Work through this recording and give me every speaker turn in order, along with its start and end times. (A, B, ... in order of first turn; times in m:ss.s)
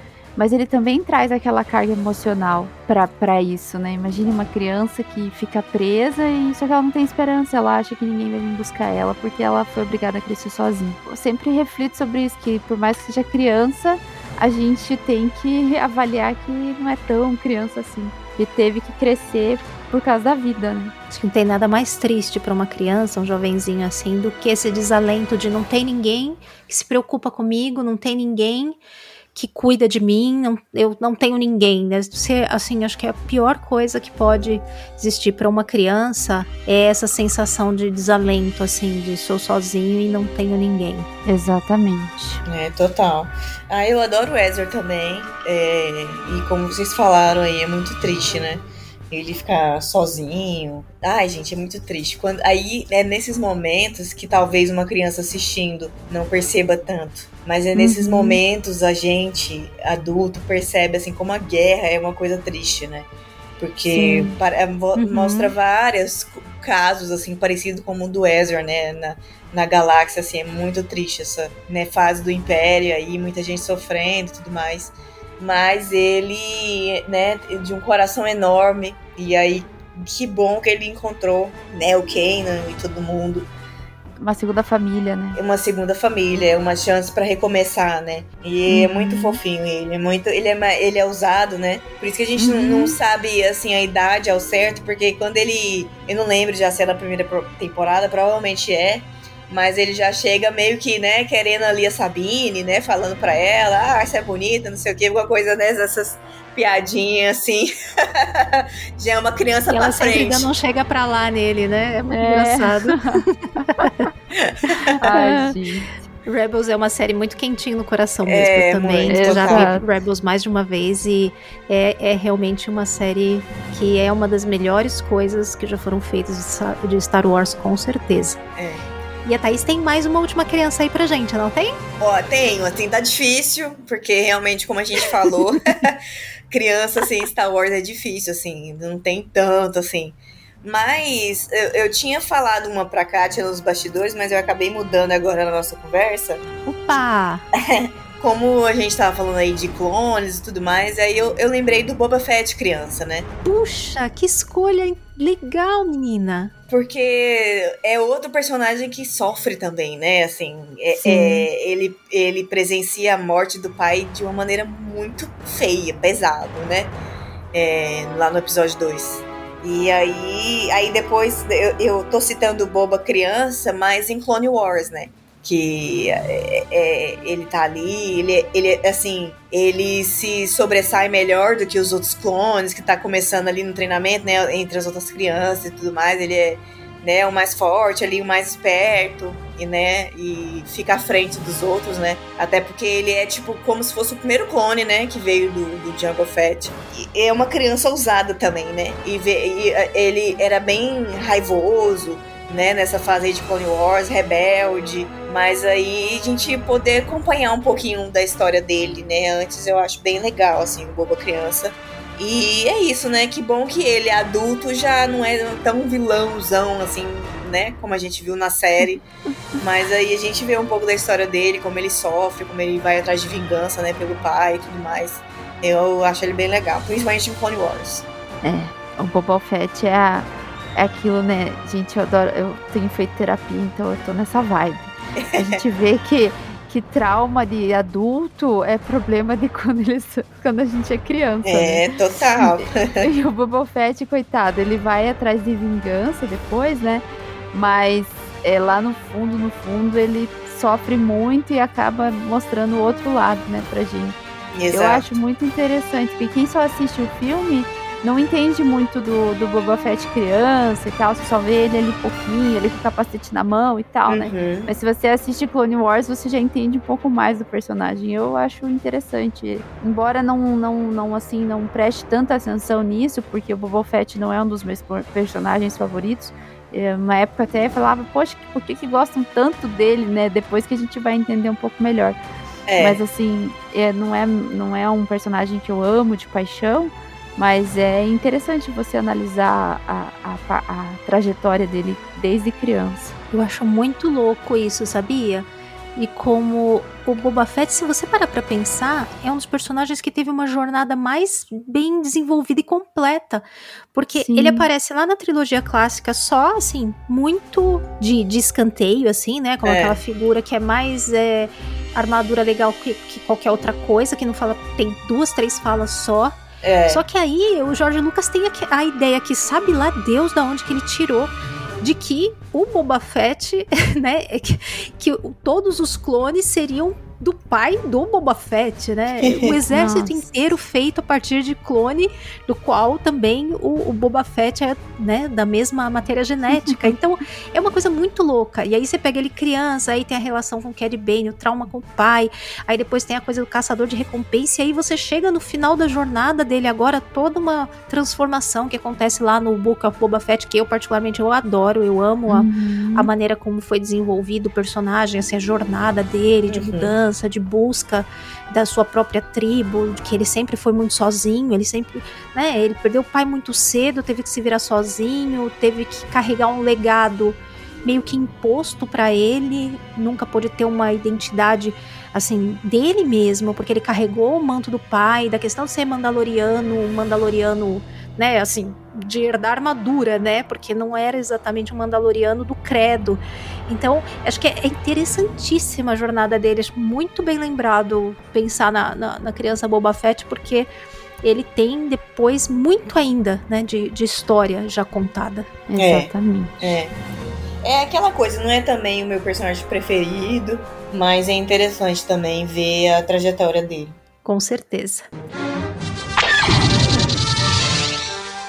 0:00.4-0:20.9 A
0:21.1-0:28.8 B
0:29.4-0:41.1 B
0:41.3-0:42.4 A
0:42.5-1:03.1 C
0:57.8-0:58.3 A
1:03.6-1:23.5 C
1:03.9-1:04.3 A
1:05.0-1:05.5 B
1:24.2-1:25.4 A
1:25.4-1:50.5 C
1:28.7-1:29.4 A
1:32.4-1:33.0 A
1:49.7-1:54.1 B
1:52.1-1:53.9 A
1:54.3-1:55.0 C
1:55.0-1:55.5 B
1:55.0-1:55.9 A
1:56.3-2:08.4 B
1:58.2-1:59.7 C
1:59.1-1:59.9 A
2:08.6-2:08.8 C
2:09.2-2:11.8 B
2:12.0-2:27.0 C
2:26.7-2:27.4 B
2:27.6-2:33.3 C
2:33.4-2:36.5 B
2:36.7-2:46.9 C
2:41.0-2:41.3 A
2:47.5-3:39.0 C
3:39.6-3:48.1 C
3:48.4-4:01.8 A
3:55.2-3:55.6 C
4:01.4-4:03.1 C
4:02.4-4:14.2 A
4:14.5-4:15.2 C
4:14.7-4:42.2 A
4:24.1-4:24.7 C
4:42.7-4:43.0 C
4:42.8-4:53.1 A
4:53.3-5:16.4 B
5:04.2-5:04.7 A
5:09.6-5:10.0 C
5:16.6-5:17.0 C
5:16.9-6:30.7 B
5:29.2-5:29.5 C
5:29.7-5:30.3 A
5:36.5-5:36.9 A
5:52.3-5:53.1 A
5:56.5-5:56.9 C
6:31.2-6:35.5 B
6:35.7-6:36.5 A
6:35.8-6:36.9 C
6:37.6-6:44.0 C
6:44.2-6:45.1 B